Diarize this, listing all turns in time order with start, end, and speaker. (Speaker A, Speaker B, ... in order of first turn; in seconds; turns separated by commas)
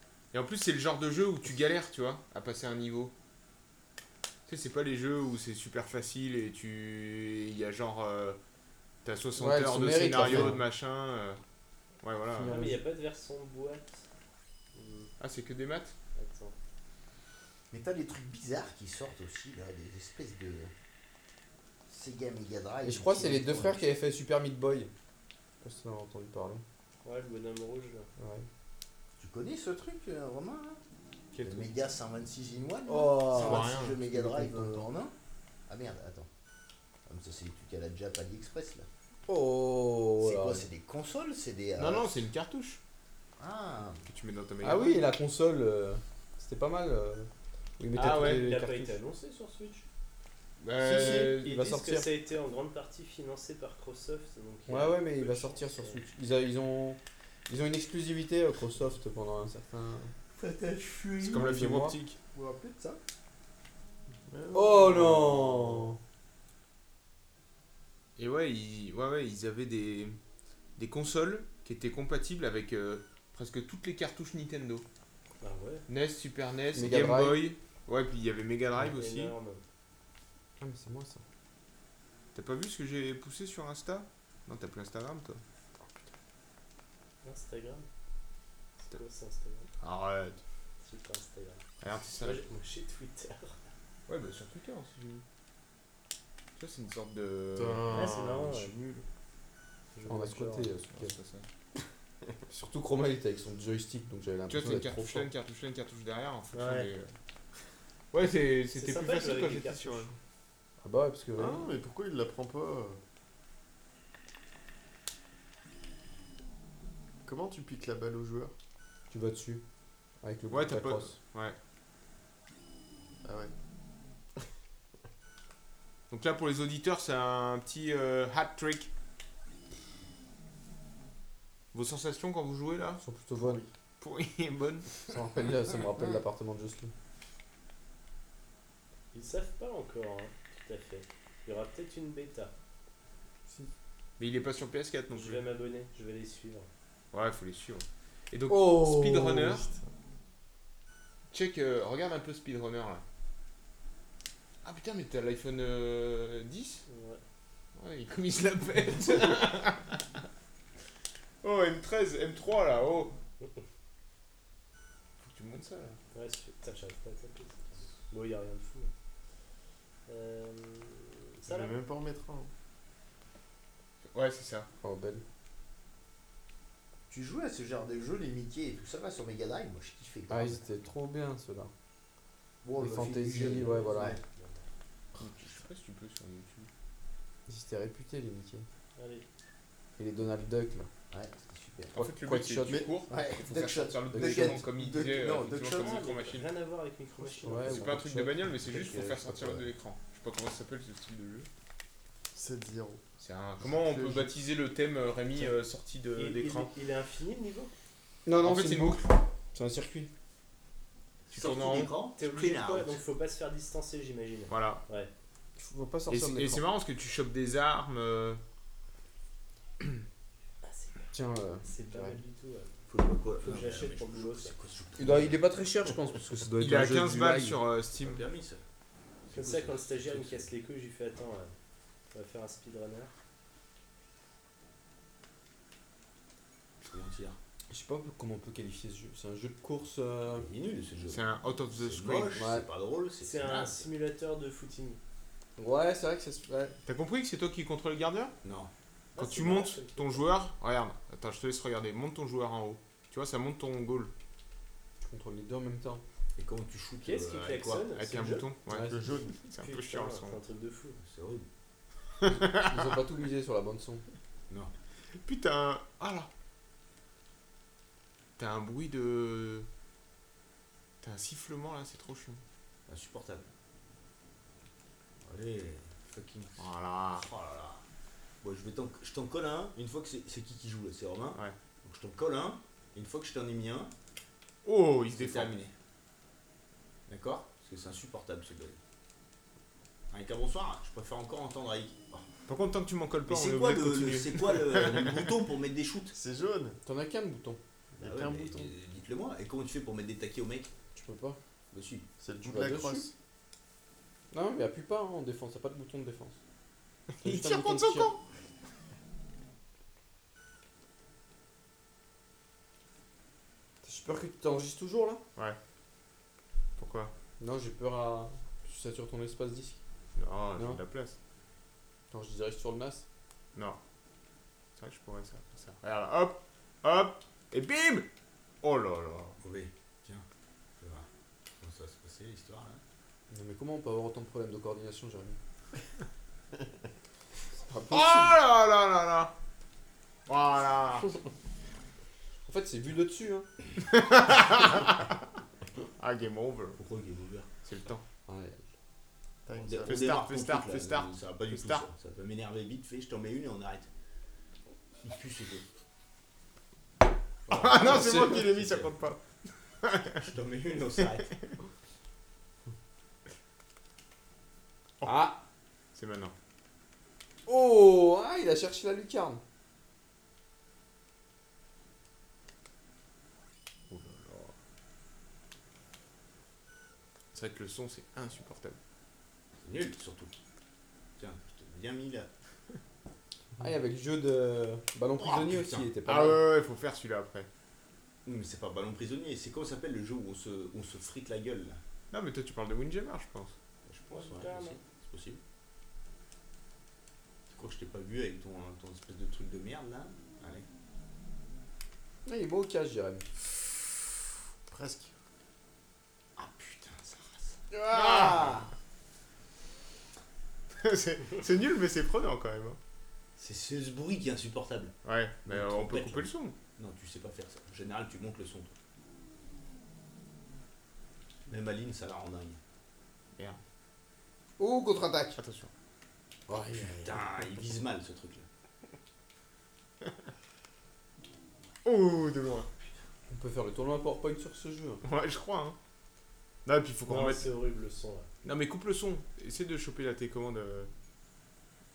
Speaker A: 0.3-3.1, Speaker A: 4.5-8.4, Speaker A: 9.0-11.4, Speaker B: 9.4-10.6, Speaker A: 12.0-12.6, Speaker B: 12.3-12.8, Speaker C: 12.5-14.1, Speaker C: 14.7-15.1, Speaker A: 15.2-15.9, Speaker C: 16.2-16.6, Speaker D: 17.7-20.7, Speaker D: 21.9-23.9, Speaker B: 22.8-24.9, Speaker B: 25.6-26.6, Speaker C: 27.0-28.1, Speaker B: 28.2-28.5, Speaker D: 29.2-30.8, Speaker D: 31.4-35.1, Speaker B: 32.9-34.9, Speaker A: 33.3-34.0, Speaker D: 35.7-36.3, Speaker D: 37.1-38.9, Speaker B: 39.3-40.7, Speaker D: 40.2-42.3, Speaker A: 41.8-42.8, Speaker D: 43.4-44.1, Speaker A: 44.1-45.1, Speaker B: 44.6-49.0, Speaker C: 48.0-49.9, Speaker A: 48.0-48.5, Speaker A: 50.6-51.5, Speaker B: 50.8-52.1, Speaker C: 51.3-56.0, Speaker B: 54.7-60.1, Speaker D: 60.4-61.4, Speaker B: 61.2-62.0, Speaker A: 61.2-62.2, Speaker E: 62.3-63.0, Speaker E: 64.3-65.9, Speaker B: 64.5-66.0, Speaker A: 68.2-70.2, Speaker A: 70.8-74.8, Speaker C: 75.4-75.8, Speaker A: 75.9-79.3, Speaker B: 76.7-77.5, Speaker C: 78.8-79.6, Speaker B: 80.6-81.2, Speaker A: 82.3-85.4, Speaker C: 87.2-87.9, Speaker C: 88.8-89.7, Speaker A: 89.8-90.4, Speaker C: 90.8-91.7, Speaker A: 91.8-92.4, Speaker C: 92.2-93.6, Speaker A: 94.1-95.2, Speaker A: 96.6-97.9, Speaker E: 97.6-99.0, Speaker C: 97.9-98.8, Speaker C: 99.9-100.7, Speaker B: 100.1-101.2, Speaker A: 100.9-101.5, Speaker B: 102.5-105.3, Speaker A: 104.5-107.1, Speaker C: 106.5-106.9, Speaker A: 108.1-110.1, Speaker C: 108.7-110.1, Speaker B: 110.8-111.7, Speaker E: 111.4-113.0, Speaker E: 117.2-118.5, Speaker B: 119.1-119.7, Speaker B: 120.2-121.2, Speaker A: 120.5-121.6, Speaker E: 123.2-123.5, Speaker A: 126.1-128.9, Speaker A: 131.7-133.0, Speaker B: 133.0-133.6, Speaker E: 133.3-133.7, Speaker A: 134.0-135.0, Speaker B: 135.1-136.9, Speaker C: 139.1-142.5, Speaker A: 144.2-145.4, Speaker C: 145.1-146.7, Speaker A: 147.1-149.7, Speaker B: 148.5-149.7, Speaker A: 151.3-153.0, Speaker A: 154.6-156.8, Speaker C: 156.9-157.2, Speaker A: 157.8-160.0, Speaker A: 161.4-163.2, Speaker A: 165.2-166.0, Speaker C: 166.1-168.9, Speaker C: 170.1-171.8, Speaker E: 171.5-172.5, Speaker A: 174.1-174.7, Speaker B: 174.8-175.2, Speaker D: 177.1-180.7, Speaker B: 180.3-181.7, Speaker D: 182.6-184.2, Speaker B: 182.8-184.2, Speaker C: 184.3-184.7, Speaker A: 185.2-186.7, Speaker B: 187.5-188.7, Speaker C: 189.0-189.3, Speaker B: 190.0-190.9, Speaker D: 191.1-191.9, Speaker B: 191.9-192.9, Speaker A: 191.9-196.5, Speaker D: 193.1-195.5, Speaker B: 194.1-194.7, Speaker E: 194.7-196.0, Speaker C: 195.5-197.9, Speaker B: 197.4-198.7, Speaker A: 197.5-201.5, Speaker D: 198.7-199.7, Speaker E: 202.3-203.0, Speaker A: 203.2-206.7, Speaker E: 203.6-204.3, Speaker C: 206.2-207.7, Speaker B: 208.3-210.1, Speaker A: 208.4-209.1, Speaker D: 211.3-213.0, Speaker A: 211.3-211.9, Speaker C: 212.2-215.1, Speaker A: 214.5-214.8, Speaker B: 215.6-216.7, Speaker A: 216.1-218.4, Speaker C: 220.6-221.1, Speaker B: 221.1-221.7, Speaker C: 221.6-222.7, Speaker D: 222.9-225.4, Speaker C: 223.4-224.6, Speaker B: 225.0-227.6, Speaker A: 226.6-228.2, Speaker D: 227.9-228.6, Speaker D: 229.3-230.5, Speaker C: 229.3-231.6, Speaker C: 232.1-233.1, Speaker D: 236.8-237.4, Speaker B: 237.7-240.5, Speaker D: 240.3-243.9, Speaker A: 241.1-242.4, Speaker B: 242.2-242.7, Speaker C: 243.2-245.0, Speaker B: 245.6-246.8, Speaker A: 246.9-248.4, Speaker D: 248.4-248.7, Speaker C: 249.2-250.3, Speaker A: 249.2-254.1, Speaker B: 255.0-256.0, Speaker D: 256.4-257.9, Speaker C: 257.0-258.5, Speaker A: 257.9-260.4, Speaker B: 258.7-259.3, Speaker C: 259.6-261.0, Speaker D: 261.0-261.5, Speaker A: 262.2-262.9, Speaker B: 262.3-264.0, Speaker A: 265.2-266.3, Speaker A: 268.4-269.7, Speaker A: 271.0-272.4, Speaker D: 272.9-273.5, Speaker D: 275.2-277.8, Speaker A: 276.6-277.3, Speaker D: 278.4-283.9, Speaker A: 284.6-285.6, Speaker D: 285.1-285.7, Speaker D: 287.1-288.8, Speaker D: 290.1-292.3, Speaker A: 292.5-295.3, Speaker D: 293.3-296.2, Speaker E: 296.1-296.8, Speaker B: 296.8-297.6, Speaker E: 298.0-298.7, Speaker D: 298.0-300.7, Speaker B: 300.9-301.4, Speaker D: 301.7-302.1, Speaker E: 302.2-303.1, Speaker B: 302.4-303.1, Speaker B: 304.3-306.4, Speaker A: 307.2-308.2, Speaker B: 307.2-308.1, Speaker B: 313.8-315.2, Speaker A: 316.8-317.1, Speaker B: 317.4-319.8, Speaker A: 320.2-321.2, Speaker B: 320.6-320.8, Speaker B: 322.1-323.1, Speaker A: 324.8-328.1, Speaker A: 328.6-329.4, Speaker D: 329.4-330.3, Speaker D: 330.8-331.1, Speaker D: 331.6-332.8, Speaker B: 333.3-335.4, Speaker B: 337.5-338.4, Speaker A: 337.9-339.3, Speaker A: 340.3-341.1, Speaker B: 342.4-343.5, Speaker A: 343.9-345.1, Speaker A: 346.0-346.8, Speaker D: 346.8-347.5, Speaker A: 347.6-348.0, Speaker B: 348.3-348.6, Speaker E: 349.5-350.1, Speaker D: 349.6-353.9, Speaker A: 349.9-351.9, Speaker D: 355.0-355.6, Speaker D: 357.5-358.9, Speaker A: 357.5-359.2, Speaker A: 359.8-360.1, Speaker D: 360.2-361.4, Speaker A: 365.0-365.4, Speaker B: 365.0-365.4, Speaker A: 365.9-366.4, Speaker B: 367.5-369.4, Speaker A: 373.9-374.5, Speaker A: 377.3-378.8, Speaker D: 379.6-380.3, Speaker D: 381.2-382.3, Speaker B: 383.6-386.4, Speaker D: 385.2-385.9, Speaker A: 386.1-387.5, Speaker D: 388.2-391.8, Speaker A: 392.1-393.6, Speaker D: 393.9-395.4, Speaker C: 394.1-394.8, Speaker D: 397.5-400.7, Speaker B: 402.2-403.3, Speaker E: 404.7-405.1, Speaker D: 406.4-407.6, Speaker B: 407.7-408.7, Speaker A: 407.9-408.6, Speaker A: 410.8-412.8, Speaker D: 413.4-414.9, Speaker A: 415.1-416.6, Speaker D: 415.5-418.7, Speaker D: 421.5-422.6, Speaker B: 424.6-425.4, Speaker A: 425.4-425.7, Speaker D: 426.5-428.5, Speaker A: 431.9-432.7, Speaker B: 433.3-435.0, Speaker A: 435.0-435.8, Speaker A: 436.6-437.5, Speaker C: 437.1-438.3, Speaker A: 438.4-440.9